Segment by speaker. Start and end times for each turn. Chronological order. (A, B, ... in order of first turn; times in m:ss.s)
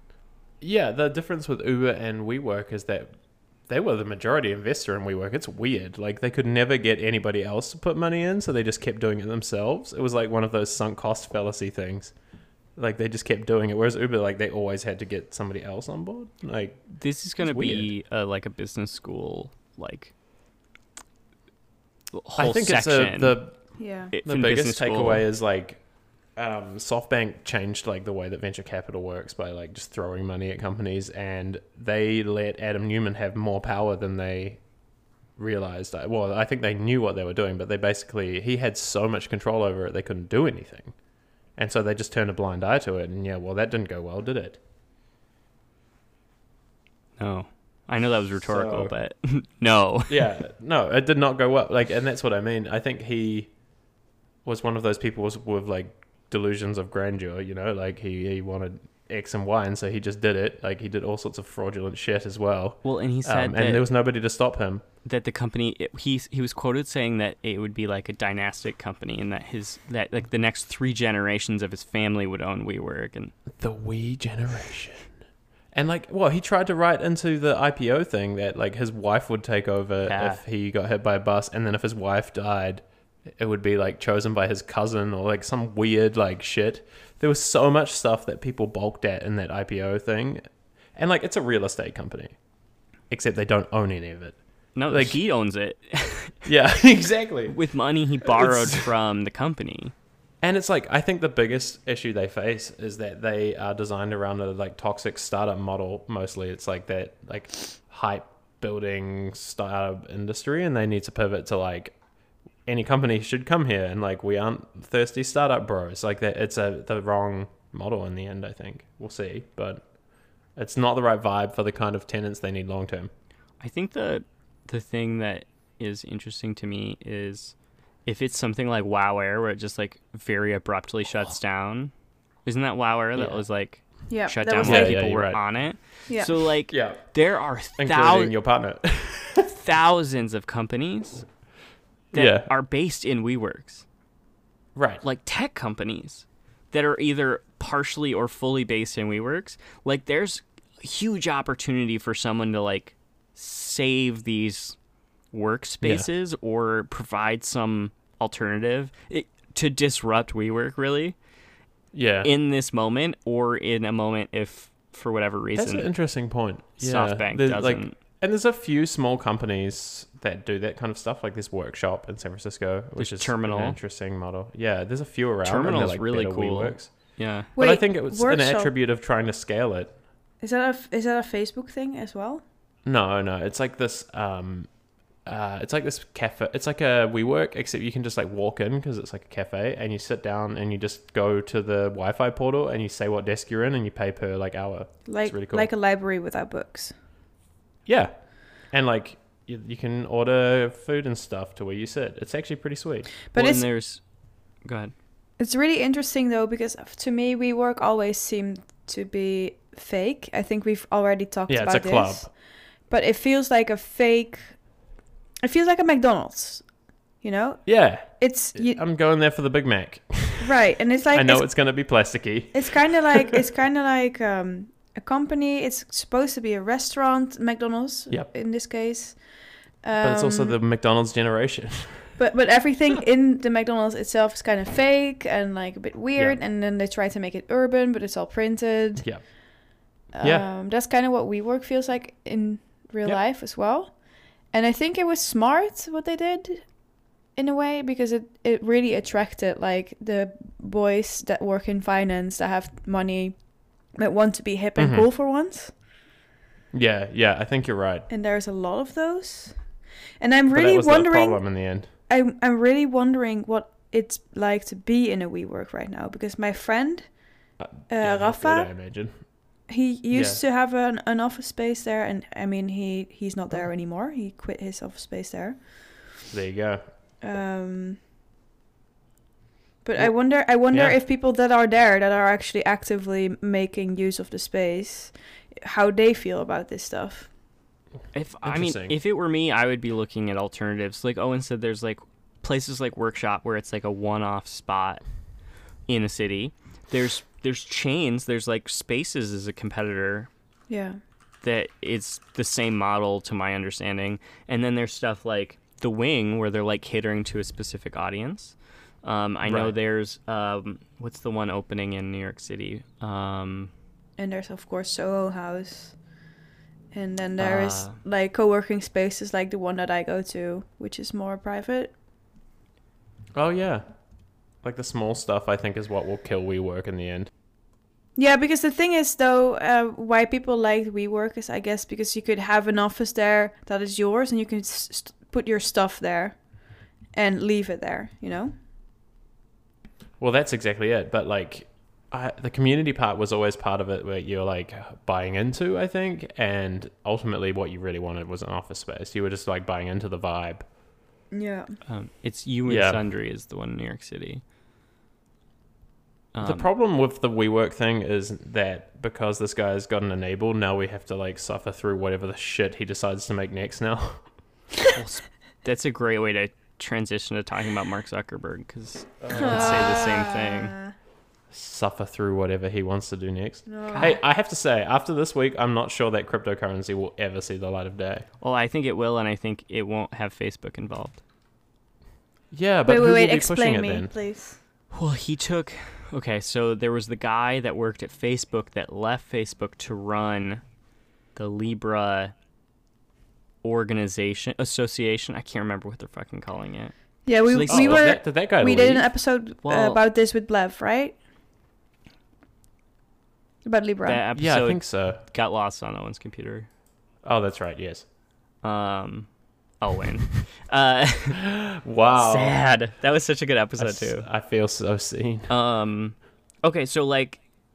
0:00.6-0:03.2 A
0:03.7-0:12.1 A
0:12.8-0:17.9 A
0:16.9-0:20.1 B
0:22.1-0:23.4 B
0:22.4-0:23.6 A
0:23.8-0:24.1 C
0:24.1-0:25.3 B
0:24.2-0:25.8 A
0:26.4-0:34.6 A
0:35.4-0:40.9 A
0:41.6-0:44.6 A
0:47.2-0:50.4 B
0:48.4-0:48.9 A
0:50.1-0:53.5 A
0:54.4-1:04.8 A
1:02.8-1:03.9 B
1:05.0-1:13.3 B
1:13.6-1:15.1 A
1:15.7-1:22.8 A
1:20.0-1:20.4 B
1:23.3-1:32.4 A
1:33.1-1:34.4 A
1:34.8-1:36.5 B
1:34.9-1:35.2 A
1:36.4-1:37.6 A
1:37.5-1:39.9 B
1:38.2-1:38.9 A
1:40.4-1:52.0 A
1:52.7-1:59.8 A
2:00.6-2:03.1 A
2:03.6-2:07.5 B
2:08.1-2:11.9 B
2:12.4-2:18.3 B
2:13.2-2:13.4 A
2:14.1-2:15.0 C
2:14.6-2:15.4 A
2:16.1-2:16.4 C
2:16.7-2:17.0 A
2:17.8-2:19.5 A
2:19.6-2:21.3 B
2:22.1-2:22.5 A
2:22.1-2:23.8 B
2:24.8-2:25.0 A
2:25.0-2:34.8 B
2:35.3-2:41.2 B
2:35.8-2:36.1 A
2:41.9-2:42.3 A
2:42.2-2:45.9 B
2:45.6-2:56.9 A
2:46.8-2:48.0 B
2:53.0-2:53.8 B
2:55.4-2:57.5 B
2:57.6-2:58.7 C
2:57.6-3:00.0 A
3:00.4-3:02.4 C
3:02.9-3:04.7 A
3:05.3-3:15.7 A
3:15.1-3:16.9 C
3:17.9-3:18.1 A
3:18.7-3:23.1 A
3:23.3-3:23.7 C
3:23.4-3:24.0 B
3:24.6-3:24.9 B
3:25.4-3:32.3 C
3:31.5-3:32.3 A
3:32.9-3:34.6 C
3:35.4-3:36.6 C
3:37.2-3:38.8 C
3:37.7-3:40.6 A
3:40.4-3:41.6 C
3:41.1-3:43.4 A
3:42.5-3:49.2 C
3:49.8-3:50.6 C
3:50.0-3:52.1 A
3:52.2-3:59.1 C
4:00.1-4:03.9 C
4:00.2-4:00.5 A
4:04.5-4:06.6 C
4:07.4-4:13.4 C
4:14.0-4:15.7 C
4:14.8-4:15.1 A
4:16.7-4:18.1 A
4:18.1-4:19.6 C
4:20.2-4:21.4 C
4:20.5-4:21.9 A
4:22.1-4:27.1 C
4:27.6-4:29.2 A
4:27.9-4:28.7 C
4:29.7-4:35.6 C
4:30.1-4:30.4 A
4:36.3-4:36.8 A
4:37.2-4:38.0 C
4:39.8-4:47.3 C
4:40.7-4:41.0 A
4:48.1-4:55.0 B
4:48.4-4:49.0 A
4:55.9-5:00.3 B
5:00.7-5:01.0 C
5:01.4-5:13.7 B
5:09.4-5:09.8 A
5:14.2-5:16.0 C
5:16.9-5:21.9 C
5:17.4-5:18.0 B
5:23.4-5:23.8 A
5:24.6-5:27.3 A
5:28.2-5:36.4 C
5:37.2-5:38.5 C
5:40.2-5:50.6 A
5:51.3-5:51.8 C
5:51.9-5:54.4 B
5:52.7-5:53.0 A
5:56.3-5:56.7 B
5:56.4-6:04.2 A
6:04.9-6:10.8 B
6:09.2-6:10.1 A
6:09.3-6:10.9 C
6:11.5-6:18.2 A
6:13.7-6:14.2 C
6:13.9-6:14.2 B
6:18.4-6:21.2 B
6:22.5-6:24.1 A
6:22.9-6:24.6 C
6:24.9-6:30.6 B
6:31.4-6:32.3 B
6:33.6-6:36.9 B
6:37.3-6:41.2 C
6:37.4-6:38.1 B
6:37.7-6:39.1 A
6:39.6-6:40.0 B
6:43.6-6:44.2 C
6:44.0-6:46.7 B
6:44.4-6:45.2 A
6:47.2-6:48.0 A
6:48.6-6:49.3 B
6:49.8-6:51.4 B
6:51.4-6:52.6 A
6:52.2-6:54.3 B
6:53.8-6:55.5 A
6:55.5-6:57.4 B